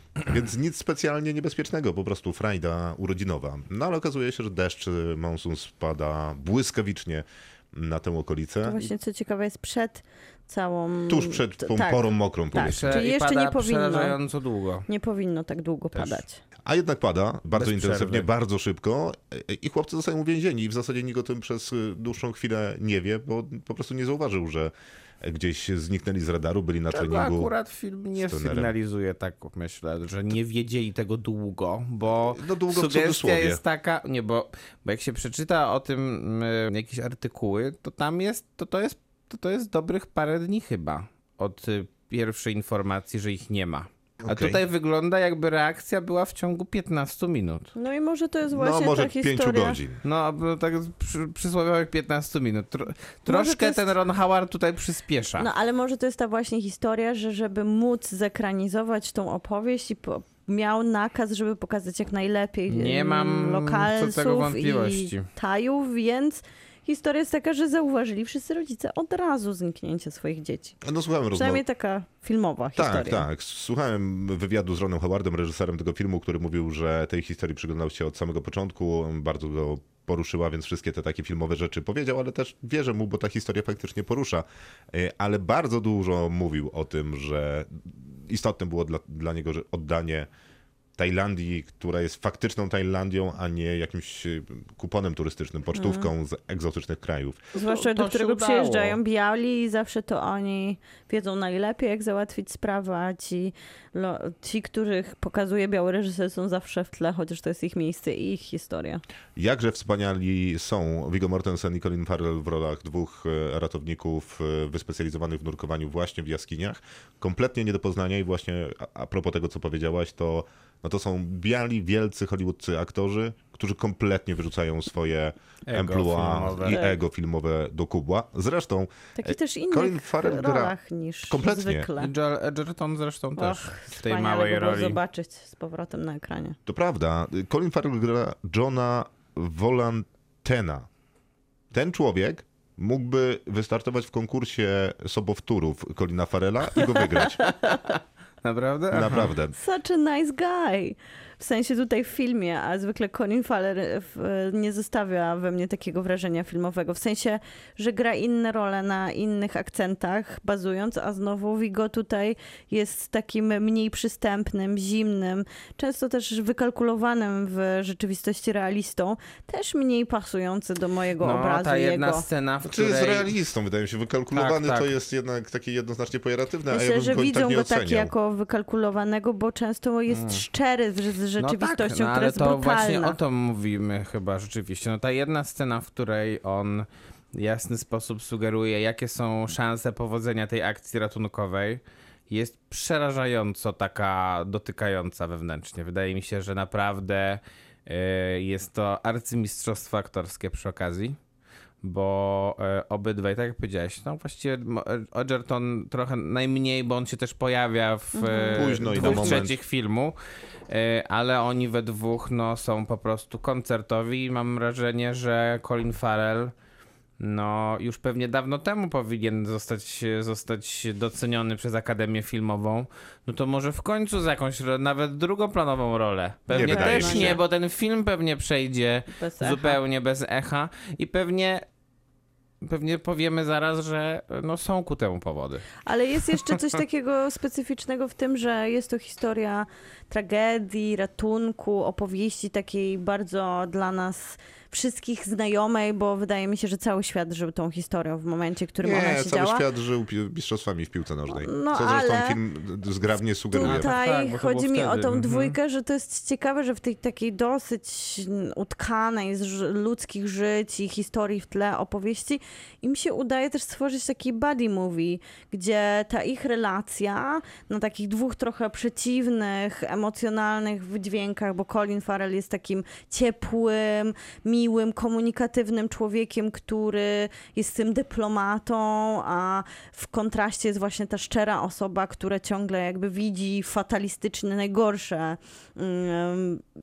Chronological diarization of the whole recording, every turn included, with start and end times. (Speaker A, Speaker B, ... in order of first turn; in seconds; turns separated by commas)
Speaker A: 0.2-8.9, Speaker B: 8.6-14.2, Speaker A: 11.1-13.0, Speaker C: 12.6-14.9, Speaker B: 14.9-16.4, Speaker C: 15.9-16.2, Speaker A: 16.6-27.5, Speaker C: 17.6-18.3, Speaker C: 26.9-47.7, Speaker A: 28.2-28.7, Speaker A: 32.1-33.6, Speaker A: 44.2-44.6, Speaker B: 47.8-49.8, Speaker A: 48.5-50.0, Speaker C: 50.0-55.5, Speaker B: 53.3-53.9, Speaker B: 55.4-70.8, Speaker C: 62.7-65.3, Speaker A: 70.8-71.6, Speaker B: 71.3-73.3, Speaker A: 72.8-90.3, Speaker A: 91.0-97.5, Speaker B: 95.8-96.1, Speaker B: 97.5-109.0, Speaker C: 97.6-99.0, Speaker A: 109.4-130.8, Speaker C: 125.7-126.8, Speaker B: 126.7-127.0, Speaker B: 129.2-132.1, Speaker A: 131.3-131.9, Speaker C: 132.0-135.0, Speaker B: 133.4-136.6, Speaker A: 136.7-140.9, Speaker A: 141.7-147.4, Speaker C: 147.4-149.3, Speaker A: 148.9-149.6, Speaker B: 149.5-172.3, Speaker C: 171.2-173.3, Speaker A: 172.6-178.1, Speaker C: 174.3-174.9, Speaker B: 176.7-183.2, Speaker C: 180.1-180.4, Speaker C: 181.4-201.2, Speaker C: 201.8-210.2, Speaker B: 208.1-209.4, Speaker A: 208.6-209.6, Speaker C: 210.7-216.5, Speaker C: 217.2-231.7, Speaker A: 226.5-227.4, Speaker B: 226.5-227.4, Speaker B: 229.2-229.8, Speaker C: 232.6-235.8, Speaker B: 235.8-249.7, Speaker A: 248.8-253.9, Speaker B: 251.3-252.4, Speaker B: 253.5-286.6, Speaker C: 253.6-255.6